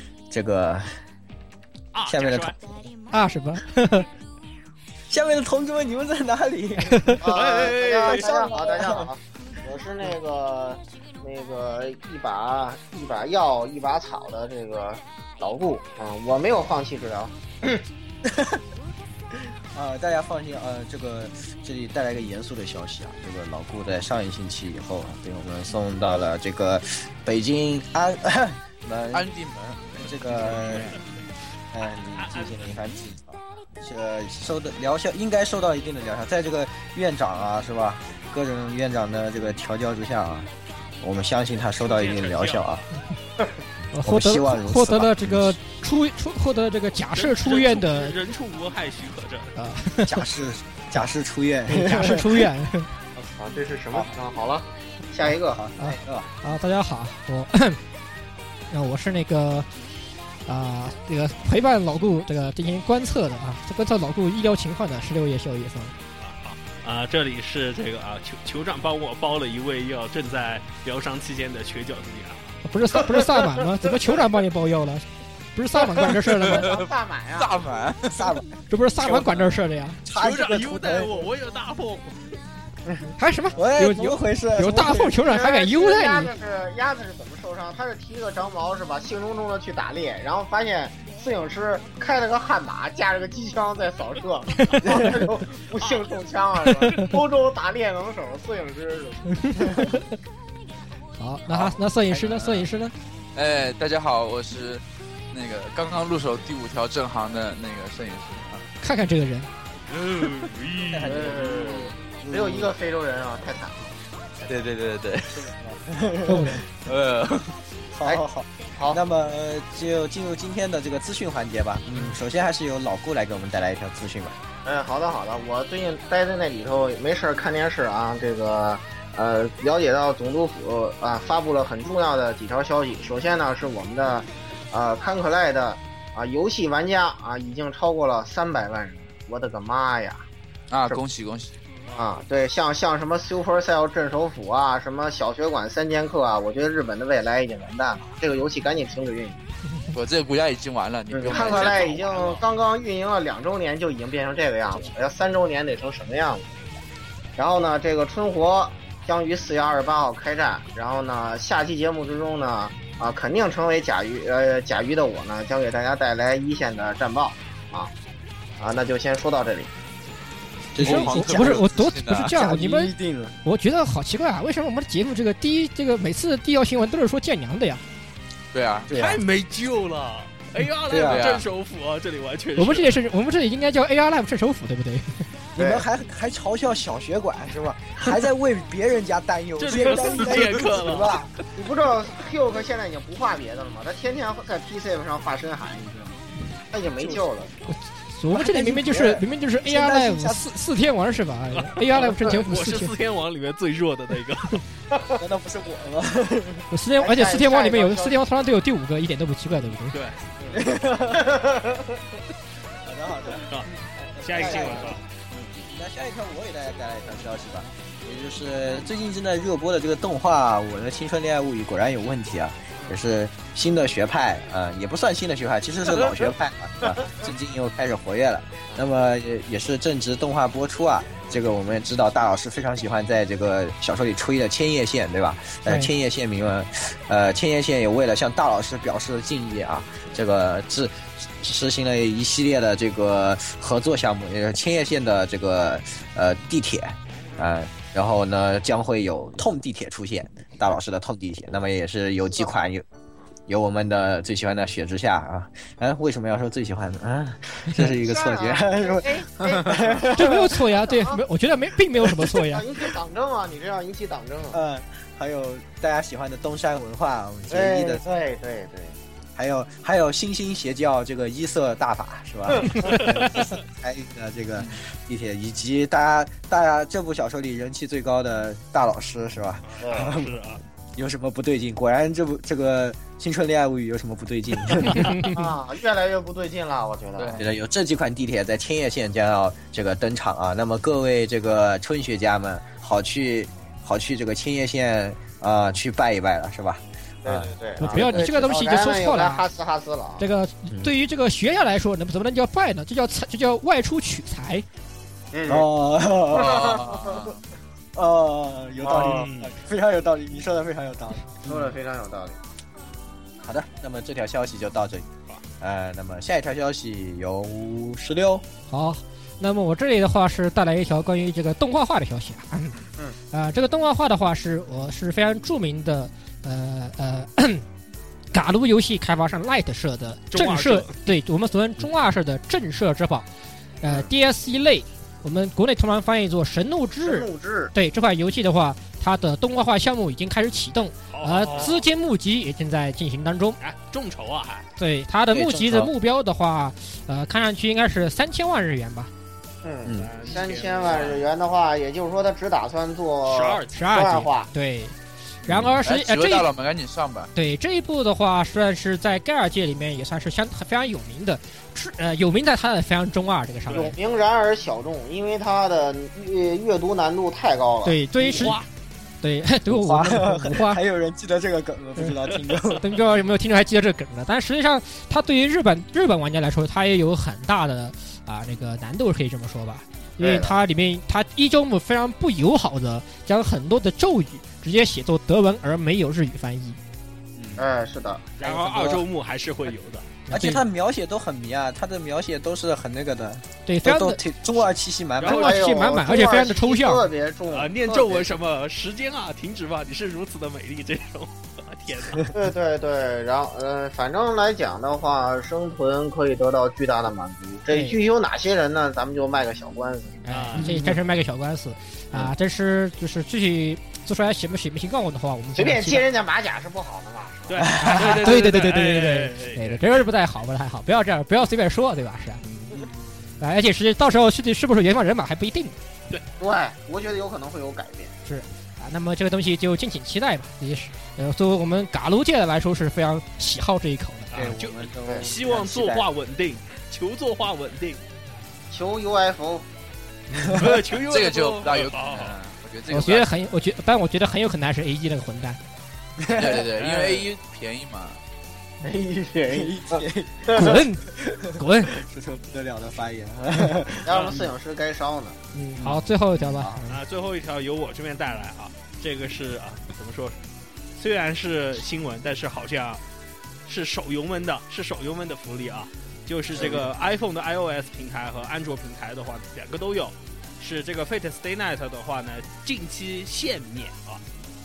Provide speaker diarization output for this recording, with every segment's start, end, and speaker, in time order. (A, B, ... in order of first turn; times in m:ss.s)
0:00.3-0:00.9 A
0:01.9-0:02.6 B
0:02.0-0:02.5 A
0:03.1-0:04.1 C
0:05.1-0:07.2 A
0:06.9-0:07.2 C
0:07.2-0:17.8 D
0:07.3-0:08.5 B
0:08.0-0:09.1 A
0:18.2-0:18.6 A
0:19.3-0:29.2 A
0:29.1-0:31.0 E
0:30.0-0:31.0 A
0:31.7-0:42.8 A
0:31.8-0:32.6 B
0:41.8-0:42.7 B
0:43.9-0:48.1 C
0:44.0-0:45.6 A
0:47.1-0:49.6 B
0:49.6-0:50.2 C
0:50.0-0:52.5 A
0:51.7-0:52.9 C
0:53.4-0:55.6 D
0:55.2-0:56.3 A
0:55.8-0:57.8 C
0:58.7-0:59.7 C
1:00.5-1:05.9 C
1:06.2-1:12.6 B
1:12.6-1:16.7 C
1:16.4-1:17.7 D
1:16.4-1:18.2 E
1:18.0-1:18.4 A
1:18.7-1:20.0 C
1:19.0-1:21.3 A
1:20.2-1:22.3 B
1:23.2-1:26.3 C
1:23.5-1:25.2 A
1:25.2-1:40.0 D
1:39.4-1:40.1 C
1:41.2-1:42.9 C
1:42.2-1:42.6 E
1:43.3-1:48.6 E
1:48.8-1:49.5 C
1:49.9-1:51.9 E
1:50.9-1:52.7 A
1:51.0-1:53.9 D
1:54.4-1:55.5 E
1:55.3-1:56.7 A
1:56.2-1:56.7 C
1:56.8-1:57.6 E
1:57.9-2:04.4 A
1:58.8-1:59.0 D
2:04.6-2:20.2 D
2:20.7-2:21.5 E
2:21.9-2:29.4 D
2:29.9-2:32.4 E
2:31.1-2:36.5 D
2:31.3-2:32.4 B
2:37.4-2:47.9 D
2:48.6-2:49.7 D
2:50.7-2:53.4 A
2:50.8-2:52.4 E
2:50.8-2:57.8 C
2:58.5-2:59.0 E
2:58.9-2:59.2 A
2:58.9-3:03.0 B
3:00.9-3:01.3 A
3:01.0-3:01.4 E
3:02.6-3:05.2 C
3:05.6-3:11.3 A
3:05.6-3:05.8 D
3:09.6-3:11.3 B
3:11.5-3:16.2 D
3:16.7-3:17.5 D
3:17.7-3:22.9 C
3:18.3-3:20.5 A
3:21.5-3:24.6 B
3:24.9-3:25.2 D
3:25.1-3:27.2 A
3:26.7-3:30.0 C
3:27.0-3:28.2 D
3:29.9-3:30.2 B
3:30.5-3:31.4 A
3:31.2-3:32.0 D
3:32.8-4:12.8 A
3:33.5-3:35.0 B
3:34.4-3:35.0 D
4:13.5-4:20.6 A
4:17.8-4:21.2 D
4:20.1-4:22.6 C
4:22.2-4:24.6 D
4:24.5-4:28.0 A
4:27.5-4:29.0 D
4:29.4-4:40.4 A
4:32.5-4:33.0 D
4:33.0-4:33.5 B
4:39.6-4:40.6 B
4:39.8-4:40.1 D
4:41.0-4:45.3 A
4:45.0-4:45.3 C
4:45.2-4:47.4 D
4:47.3-4:58.1 A
4:57.2-5:00.2 D
4:57.8-4:59.4 C
4:58.0-4:58.2 E
5:00.2-5:04.6 C
5:05.3-5:05.6 D
5:05.4-5:06.8 A
5:06.3-5:07.2 D
5:06.3-5:07.4 E
5:07.9-5:11.7 A
5:08.8-5:09.3 D
5:09.0-5:09.5 B
5:11.4-5:12.4 D
5:13.4-5:15.1 A
5:15.6-5:18.4 A
5:18.7-5:22.8 C
5:23.3-5:27.6 C
5:28.3-5:33.3 C
5:30.3-5:30.9 B
5:33.8-5:43.6 C
5:37.0-5:37.7 D
5:41.1-5:41.8 B
5:43.6-5:44.6 B
5:44.8-5:49.1 C
5:45.3-5:45.9 A
5:49.6-5:54.5 D
5:49.9-5:51.3 B
5:53.2-5:53.8 B
5:53.7-5:54.9 C
5:55.4-5:55.7 A
5:55.4-5:56.5 C
5:55.8-5:57.3 E
5:57.3-6:04.0 C
6:03.7-6:08.5 D
6:07.8-6:08.6 C
6:08.3-6:08.7 B
6:09.2-6:10.8 C
6:09.7-6:12.9 A
6:12.8-6:26.8 C
6:20.2-6:20.6 D
6:27.6-6:28.8 D
6:28.4-6:30.1 B
6:30.3-6:30.6 C
6:30.3-6:35.6 A
6:33.6-6:34.2 C
6:35.2-6:35.6 B
6:35.2-6:37.0 C
6:35.3-6:38.3 D
6:37.5-6:42.3 B
6:42.3-6:50.2 D
6:47.7-6:48.0 C
6:50.2-6:56.0 C
6:50.3-6:50.7 B
6:50.6-6:51.0 A
6:55.6-6:57.7 D
6:57.5-6:59.8 B
6:57.6-6:58.3 A
6:57.8-7:02.4 C
7:02.4-7:02.9 B
7:03.4-7:05.8 C
7:06.4-7:08.1 D
7:08.2-7:14.3 C
7:14.3-7:18.0 B
7:14.3-7:16.1 A
7:18.7-7:19.6 D
7:20.5-7:22.4 B
7:21.0-7:23.3 E
7:22.9-7:25.6 C
7:26.2-7:26.8 A
7:26.3-7:28.2 E
7:26.8-7:27.2 B
7:28.8-7:30.8 D
7:29.5-7:34.5 A
7:30.5-7:31.9 C
7:34.0-7:35.4 D
7:34.1-7:34.4 B
7:35.5-7:37.0 C
7:35.8-7:36.8 A
7:36.9-7:40.4 B
7:41.0-7:43.0 B
7:43.7-7:54.2 B
7:46.5-7:46.9 A